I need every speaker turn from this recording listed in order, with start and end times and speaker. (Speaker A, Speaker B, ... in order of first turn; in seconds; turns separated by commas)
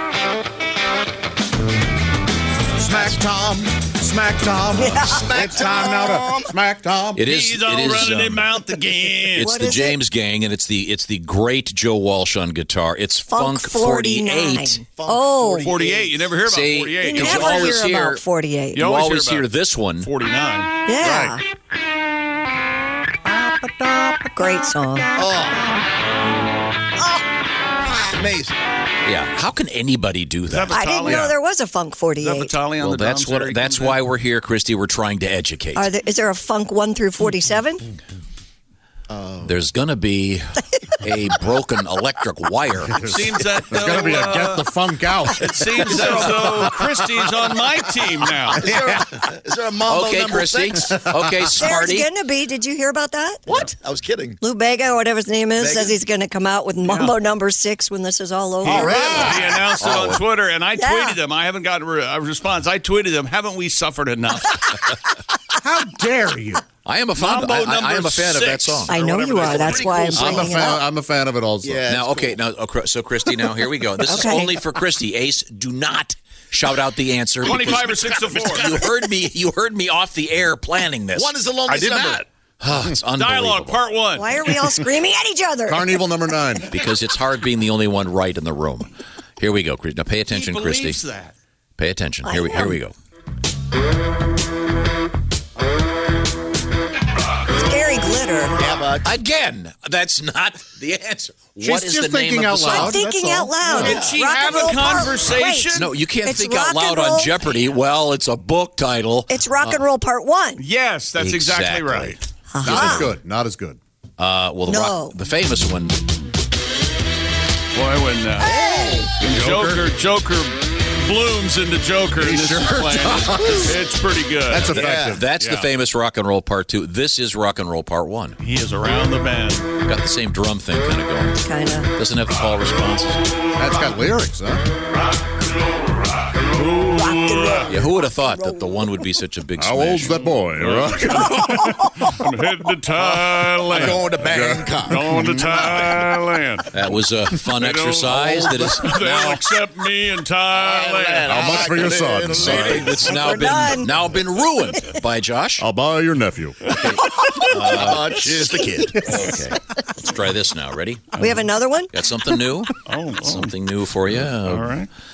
Speaker A: 2.8-7.2, Speaker B: 4.7-5.3, Speaker C: 5.1-6.5, Speaker D: 7.2-8.5, Speaker E: 7.2-9.5, Speaker D: 9.3-14.8, Speaker B: 9.4-10.0, Speaker B: 13.2-15.7, Speaker C: 14.9-16.4, Speaker E: 15.6-17.8, Speaker D: 16.4-18.2, Speaker B: 17.0-18.9, Speaker E: 18.8-20.7, Speaker D: 18.8-20.1, Speaker B: 20.9-21.4, Speaker A: 21.0-21.4, Speaker A: 23.4-24.2, Speaker B: 24.4-25.1, Speaker C: 25.2-25.8, Speaker C: 28.1-28.6, Speaker D: 29.0-30.8, Speaker E: 30.5-31.4, Speaker B: 30.7-32.6, Speaker E: 32.2-34.0, Speaker D: 32.8-35.9, Speaker B: 35.7-37.9, Speaker C: 39.1-39.6, Speaker D: 39.4-43.0, Speaker A: 42.9-46.7, Speaker E: 43.0-44.7, Speaker E: 45.3-48.6, Speaker C: 46.1-46.7, Speaker C: 48.5-50.9, Speaker A: 48.6-49.1, Speaker D: 49.8-52.1, Speaker A: 50.8-51.6, Speaker B: 51.5-53.5, Speaker C: 53.5-54.4, Speaker B: 54.4-59.6, Speaker C: 55.6-56.0, Speaker E: 56.8-57.2, Speaker E: 58.6-64.8, Speaker A: 58.6-59.8, Speaker D: 59.8-60.2, Speaker B: 60.8-61.2, Speaker A: 65.5-66.7, Speaker D: 66.8-68.9, Speaker E: 67.2-69.9, Speaker B: 68.9-70.8, Speaker C: 69.4-70.4, Speaker A: 70.1-71.8, Speaker D: 70.2-70.5, Speaker C: 71.6-72.4, Speaker D: 71.9-83.8, Speaker B: 73.3-74.5, Speaker E: 77.4-78.8, Speaker C: 81.1-82.3, Speaker E: 83.1-84.6, Speaker B: 84.1-86.3, Speaker A: 85.7-86.7, Speaker D: 86.7-91.0, Speaker E: 90.3-91.3, Speaker D: 91.8-93.0, Speaker B: 92.2-92.8, Speaker B: 97.5-98.8, Speaker C: 98.6-99.1, Speaker D: 99.0-103.0, Speaker A: 101.6-104.0, Speaker B: 102.8-107.7, Speaker E: 103.7-105.9, Speaker C: 103.8-104.2, Speaker D: 105.7-109.8, Speaker B: 109.3-110.6, Speaker E: 110.6-112.2, Speaker D: 111.2-112.2, Speaker B: 112.5-113.2, Speaker A: 112.6-113.8, Speaker D: 112.7-113.0, Speaker D: 114.2-116.1, Speaker B: 114.7-115.2, Speaker E: 117.7-118.6, Speaker C: 118.6-119.1, Speaker E: 119.2-124.8, Speaker A: 119.2-119.8, Speaker A: 122.2-123.7, Speaker A: 124.5-125.2, Speaker D: 124.6-128.4, Speaker E: 125.3-125.7, Speaker E: 128.4-129.7, Speaker D: 129.8-133.3, Speaker B: 131.4-131.9, Speaker A: 133.6-134.7, Speaker E: 136.5-137.7, Speaker B: 136.9-139.2, Speaker D: 137.7-140.2, Speaker A: 139.6-141.3, Speaker E: 140.1-144.0, Speaker C: 143.0-145.1, Speaker A: 144.2-146.1, Speaker E: 144.9-146.7, Speaker D: 146.7-149.3, Speaker E: 147.5-151.6, Speaker C: 148.1-149.4, Speaker C: 150.5-153.4, Speaker A: 151.3-152.9, Speaker E: 152.4-152.8, Speaker D: 152.5-155.7, Speaker B: 153.0-153.9, Speaker B: 154.6-155.0, Speaker A: 155.6-156.8, Speaker D: 156.9-158.2, Speaker B: 157.0-157.4, Speaker C: 157.6-159.2, Speaker B: 158.1-159.9, Speaker D: 159.0-161.2, Speaker B: 161.2-162.0, Speaker E: 161.2-161.5, Speaker D: 161.9-164.8, Speaker E: 162.9-163.5, Speaker E: 164.3-164.9